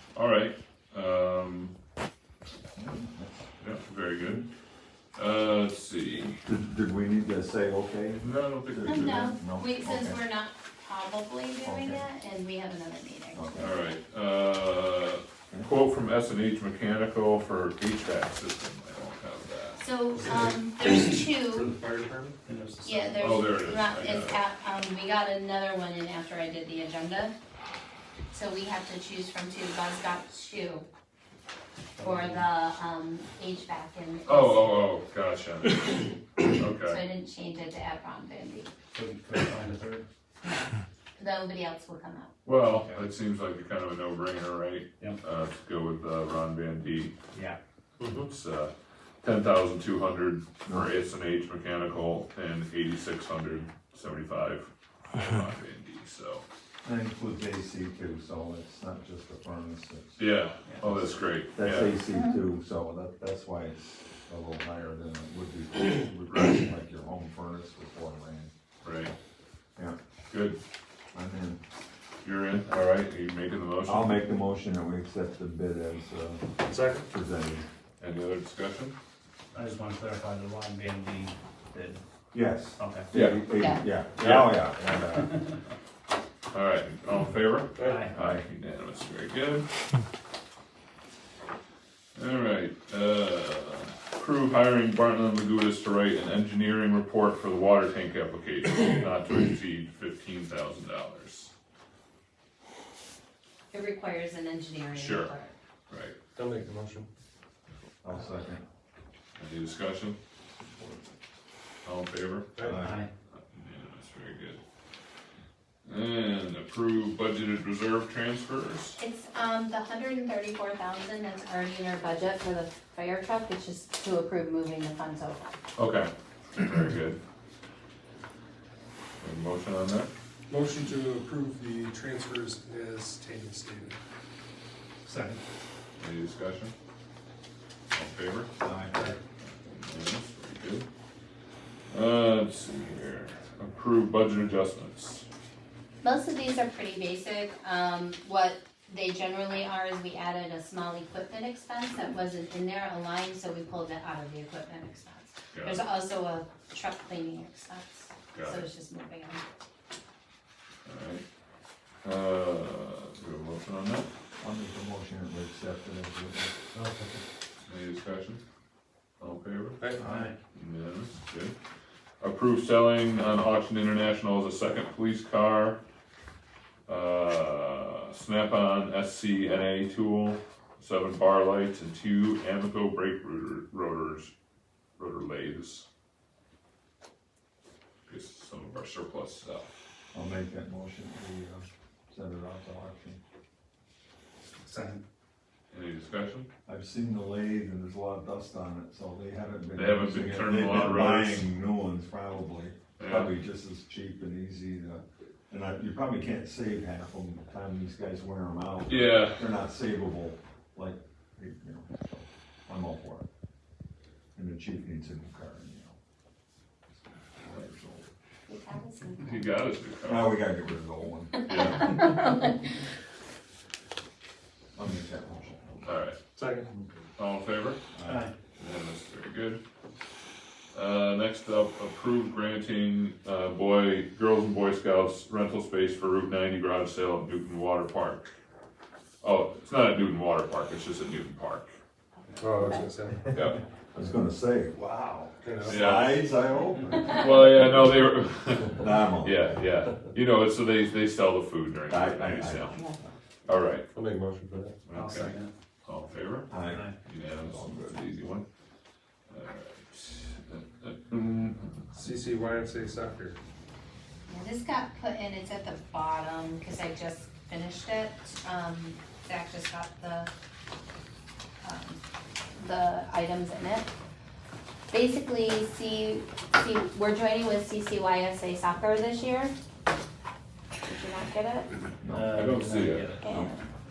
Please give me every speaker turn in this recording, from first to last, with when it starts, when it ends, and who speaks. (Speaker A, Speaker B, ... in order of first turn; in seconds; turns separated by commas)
Speaker A: 0.1-1.7, Speaker B: 2.8-3.5, Speaker A: 3.6-4.5, Speaker A: 5.2-6.4, Speaker B: 6.5-10.2, Speaker A: 8.2-9.3, Speaker C: 8.8-13.9, Speaker B: 11.6-12.1, Speaker B: 13.3-13.7, Speaker A: 13.6-19.8, Speaker C: 19.8-21.7, Speaker D: 20.2-20.5, Speaker D: 21.6-21.9, Speaker E: 21.7-22.3, Speaker D: 22.4-23.4, Speaker C: 22.8-27.3, Speaker A: 23.2-24.4, Speaker C: 28.3-30.9, Speaker D: 32.0-32.5, Speaker C: 32.0-34.8, Speaker A: 34.3-37.0, Speaker C: 36.9-38.7, Speaker D: 38.9-40.0, Speaker C: 41.2-42.3, Speaker A: 42.5-47.2, Speaker D: 42.7-43.0, Speaker D: 47.3-47.6, Speaker E: 48.0-48.3, Speaker A: 48.2-56.5, Speaker B: 56.8-60.3, Speaker A: 60.2-62.0, Speaker D: 60.7-60.9, Speaker B: 61.5-68.5, Speaker C: 62.1-62.4, Speaker A: 68.8-69.1, Speaker A: 70.3-70.6, Speaker B: 71.1-71.6, Speaker A: 72.2-74.2, Speaker B: 73.8-77.7, Speaker E: 76.7-77.1, Speaker A: 78.0-79.0, Speaker D: 79.5-82.0, Speaker B: 82.3-85.5, Speaker D: 82.8-83.1, Speaker A: 83.1-83.4, Speaker C: 83.6-83.8, Speaker A: 84.2-84.5, Speaker A: 86.5-89.7, Speaker E: 87.8-88.1, Speaker D: 87.8-88.1, Speaker B: 88.1-88.4, Speaker A: 92.2-101.5, Speaker C: 103.7-105.5, Speaker A: 104.9-105.3, Speaker A: 105.9-106.2, Speaker E: 106.4-107.1, Speaker B: 108.0-108.6, Speaker A: 109.4-110.2, Speaker B: 110.6-111.1, Speaker A: 111.8-112.7, Speaker E: 112.6-112.9, Speaker B: 112.6-113.0, Speaker D: 112.8-113.1, Speaker A: 113.3-114.6, Speaker A: 115.8-119.0, Speaker C: 119.0-125.5, Speaker A: 125.8-127.2, Speaker A: 129.2-130.1, Speaker E: 130.5-134.0, Speaker D: 135.0-135.4, Speaker A: 136.0-136.7, Speaker A: 137.9-138.5, Speaker B: 138.6-139.1, Speaker A: 139.4-140.9, Speaker A: 141.9-145.3, Speaker C: 146.0-159.6, Speaker A: 155.5-155.8, Speaker A: 158.3-158.7, Speaker A: 160.8-161.2, Speaker A: 162.0-164.1, Speaker B: 164.4-166.6, Speaker D: 166.7-167.2, Speaker A: 167.7-168.4, Speaker A: 169.2-169.9, Speaker E: 169.8-170.1, Speaker B: 170.0-170.3, Speaker D: 170.0-170.3, Speaker A: 170.5-171.6, Speaker A: 172.2-175.8, Speaker A: 176.9-184.3, Speaker A: 185.0-185.9, Speaker A: 188.1-189.7, Speaker B: 190.1-193.2, Speaker D: 194.6-195.0, Speaker A: 195.7-196.5, Speaker B: 196.7-213.3, Speaker A: 199.8-201.5, Speaker A: 203.0-203.3, Speaker A: 208.9-209.5, Speaker B: 214.3-216.0, Speaker B: 217.4-218.1, Speaker C: 218.5-219.4, Speaker A: 219.2-220.5, Speaker B: 220.1-221.7, Speaker C: 221.4-222.7, Speaker A: 221.4-222.1, Speaker B: 224.8-225.9, Speaker A: 225.8-226.2, Speaker E: 226.4-226.8, Speaker A: 227.2-227.8, Speaker B: 227.9-228.3, Speaker D: 228.0-228.3, Speaker A: 228.6-229.6, Speaker A: 230.7-238.3, Speaker A: 239.2-241.8, Speaker E: 242.4-243.3, Speaker A: 243.3-243.6, Speaker B: 243.9-244.8, Speaker E: 244.9-246.1, Speaker B: 245.6-247.3, Speaker A: 245.7-246.2, Speaker A: 247.0-252.8, Speaker B: 248.7-249.5, Speaker B: 251.9-252.9, Speaker A: 253.5-253.9, Speaker E: 253.9-254.8, Speaker A: 254.8-258.5, Speaker D: 254.9-255.5, Speaker B: 256.5-258.1, Speaker D: 256.6-257.0, Speaker A: 259.3-261.8, Speaker E: 261.9-263.4, Speaker C: 264.3-270.3, Speaker C: 271.6-272.0, Speaker C: 272.6-273.9, Speaker C: 274.9-279.5, Speaker C: 280.8-281.7, Speaker B: 282.0-282.4, Speaker D: 282.1-283.4, Speaker A: 282.3-283.5, Speaker C: 283.2-283.7